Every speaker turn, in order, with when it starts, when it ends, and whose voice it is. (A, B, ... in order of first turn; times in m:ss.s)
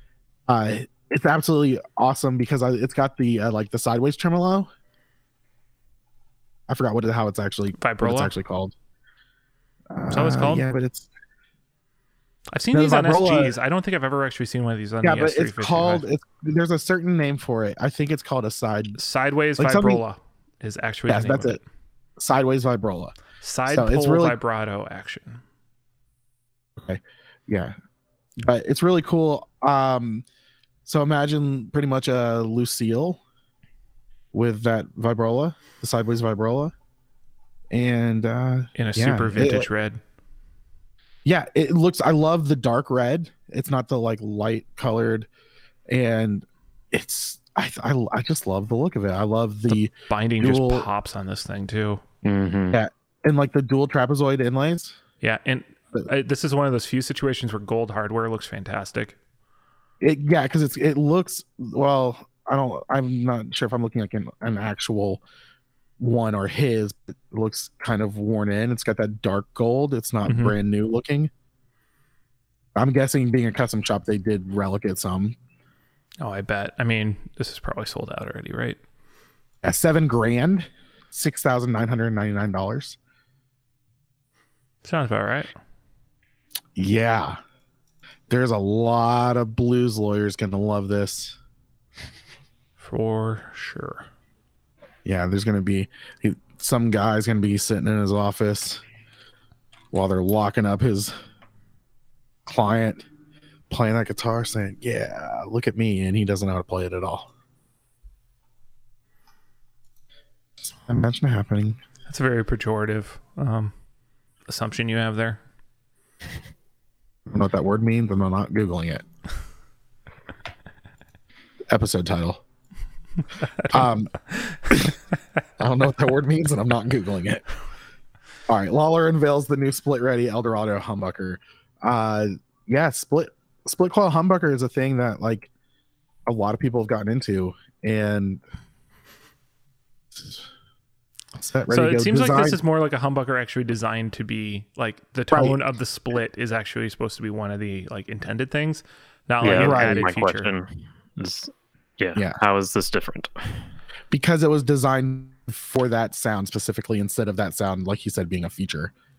0:00.5-0:04.7 A
0:06.7-0:08.8 A
0:07.8-0:08.3 B
0:09.9-0:11.1 A
0:10.1-0:10.7 B
0:12.5-0:16.0 B
0:12.7-0:13.6 A
0:15.0-0:19.0 A
0:19.0-0:21.6 B
0:19.6-0:20.0 A
0:21.1-0:21.6 A
0:22.2-0:23.2 A
0:23.4-0:25.4 B
0:23.7-0:24.4 A
0:26.8-0:27.7 A
0:28.4-0:30.2 A
0:30.9-0:33.2 A
0:34.3-0:36.7 A
0:37.7-0:39.7 A
0:38.8-0:40.0 B
0:41.2-0:45.3 A
0:45.9-0:50.9 A
0:49.7-0:52.0 B
0:52.2-0:52.8 C
0:52.7-0:55.0 A
0:55.2-0:59.2 B
1:00.0-1:05.2 A
1:06.0-1:11.3 A
1:10.2-1:10.6 B
1:12.8-1:15.4 A
1:16.2-1:18.8 B
1:19.6-1:23.0 A
1:24.8-1:25.5 B
1:26.8-1:27.4 A
1:28.3-1:31.4 A
1:32.8-1:34.1 B
1:35.0-1:38.8 A
1:39.9-1:41.1 A
1:42.5-1:43.0 A
1:43.7-1:47.3 A
1:50.6-1:51.8 A
1:52.1-1:53.7 B
1:54.5-1:55.4 B
1:57.3-1:59.0 A
2:01.7-2:02.4 A
2:03.4-2:03.9 B
2:03.7-2:04.1 A
2:04.7-2:05.0 A
2:05.6-2:07.4 A
2:08.5-2:15.5 A
2:16.3-2:18.4 A
2:21.4-2:22.6 A
2:21.7-2:30.5 B
2:25.3-2:25.6 A
2:29.4-2:33.7 C
2:29.5-2:30.0 A
2:34.1-2:38.9 A